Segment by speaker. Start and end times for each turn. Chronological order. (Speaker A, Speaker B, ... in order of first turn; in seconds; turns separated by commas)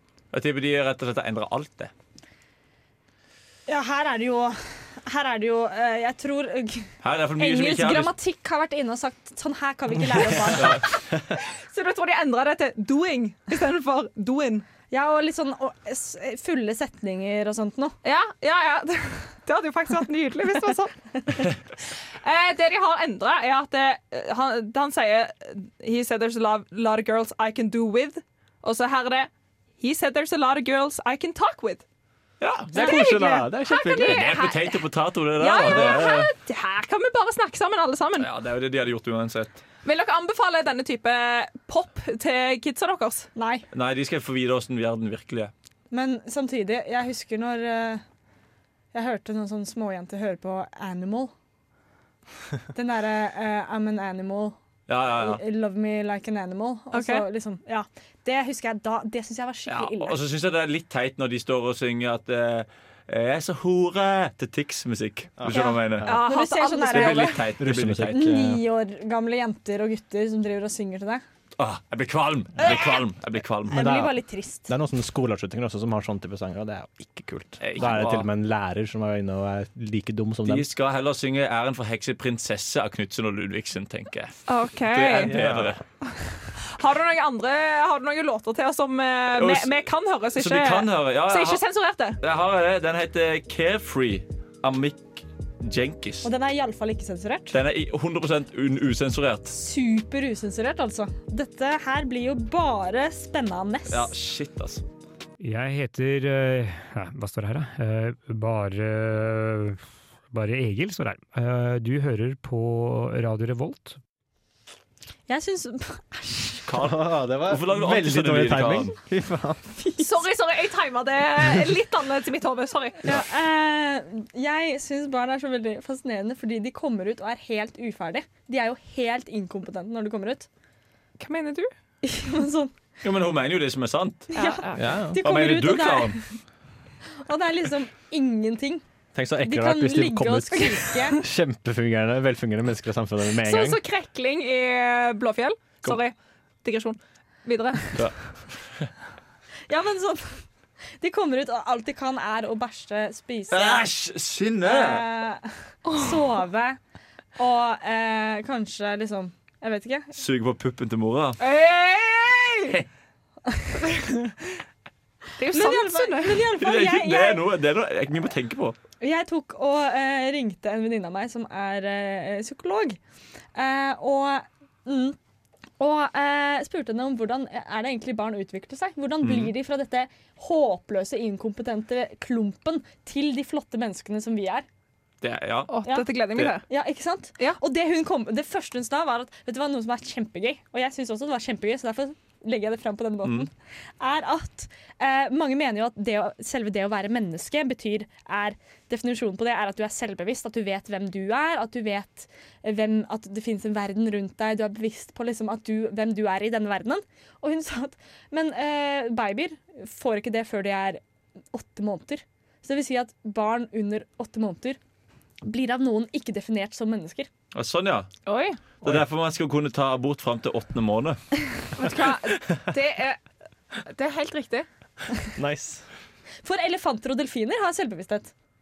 Speaker A: 0.3-1.9, Speaker B: 3.7-10.8, Speaker A: 7.0-8.1, Speaker C: 10.7-14.7, Speaker B: 14.9-17.9, Speaker C: 18.0-20.9, Speaker C: 22.2-31.8, Speaker A: 32.4-33.0, Speaker D: 32.7-34.4, Speaker C: 32.8-38.3, Speaker A: 34.0-36.2, Speaker D: 35.6-36.3, Speaker A: 38.2-39.6, Speaker C: 39.9-43.3, Speaker B: 43.4-43.7, Speaker A: 43.7-45.5, Speaker B: 45.9-48.0, Speaker B: 48.9-51.3, Speaker B: 52.7-60.2, Speaker A: 54.9-55.4, Speaker C: 56.9-57.2, Speaker A: 59.7-66.2, Speaker D: 65.4-66.2, Speaker B: 65.5-67.5, Speaker C: 66.0-67.5, Speaker A: 66.9-68.2, Speaker D: 67.6-68.6, Speaker B: 68.1-71.2, Speaker A: 71.6-73.9, Speaker B: 72.6-73.0, Speaker B: 73.7-74.7, Speaker D: 73.7-80.7, Speaker A: 77.6-78.3, Speaker A: 80.5-85.8, Speaker C: 84.5-85.4, Speaker D: 85.2-85.8, Speaker C: 86.0-92.2, Speaker A: 89.3-89.7, Speaker A: 90.3-91.6, Speaker A: 92.2-96.3, Speaker B: 96.2-97.6, Speaker A: 97.5-99.5, Speaker B: 99.5-104.1, Speaker A: 103.9-104.8, Speaker E: 105.4-114.0, Speaker B: 115.3-116.7, Speaker A: 116.7-118.9, Speaker D: 116.8-119.7, Speaker B: 119.8-120.2, Speaker C: 120.0-123.0, Speaker B: 123.0-130.5, Speaker C: 131.2-131.7, Speaker B: 132.0-132.8, Speaker A: 133.0-134.3, Speaker B: 134.3-136.4, Speaker C: 134.3-134.8, Speaker D: 134.8-135.2, Speaker A: 135.2-136.2, Speaker B: 137.3-138.8, Speaker D: 139.1-143.8, Speaker B: 139.4-141.2, Speaker C: 143.4-148.1, Speaker A: 147.9-148.9, Speaker B: 149.7-150.5, Speaker B: 151.0-153.9, Speaker A: 153.5-155.1, Speaker B: 154.6-156.8, Speaker C: 155.9-156.2, Speaker B: 157.4-160.2, Speaker A: 160.2-161.4, Speaker C: 161.4-162.8, Speaker C: 165.4-166.4, Speaker B: 165.5-167.4, Speaker A: 166.5-168.8, Speaker B: 169.0-173.0, Speaker B: 173.6-175.2, Speaker B: 175.8-184.7, Speaker A: 179.2-179.5, Speaker A: 185.2-185.7, Speaker C: 185.7-186.7, Speaker B: 185.8-211.0, Speaker A: 193.2-193.5, Speaker B: 211.5-214.8, Speaker B: 215.4-217.3, Speaker A: 217.5-218.1, Speaker C: 218.3-218.6, Speaker A: 218.8-221.4, Speaker C: 221.8-223.2, Speaker C: 223.8-224.7, Speaker D: 225.4-225.9, Speaker B: 226.4-228.3